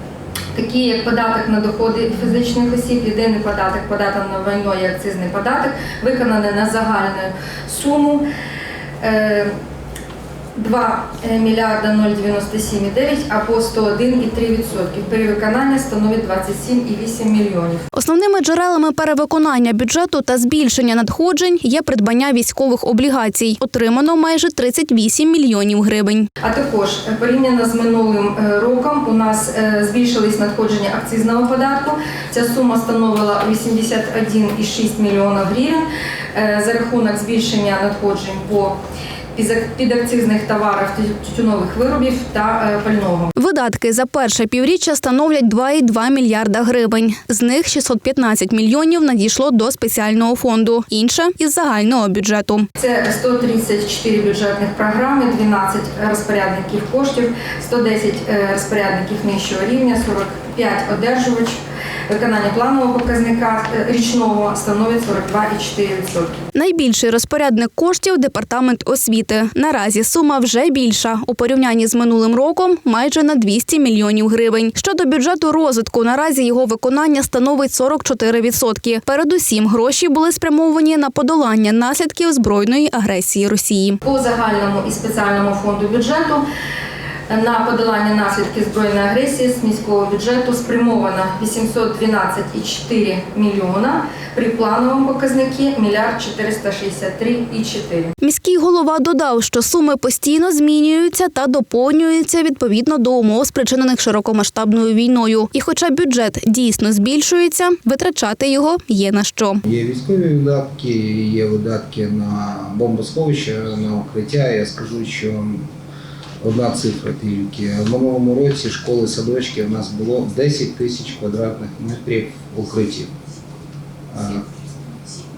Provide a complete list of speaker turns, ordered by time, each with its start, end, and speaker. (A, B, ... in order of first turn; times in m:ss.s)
0:00.5-0:08.2 A
0:09.0-0:09.5 A
0:10.5-0:17.8 A
0:17.9-0:26.2 B
0:26.4-0:38.8 A
0:39.3-0:43.3 A
0:43.4-0:52.7 B
0:52.8-1:06.4 A
1:06.5-1:24.0 B
1:24.0-1:26.4 A
1:27.3-1:38.1 A
1:38.2-1:49.6 B
1:49.6-1:55.7 C
1:56.4-2:03.1 C
2:04.1-2:04.5 C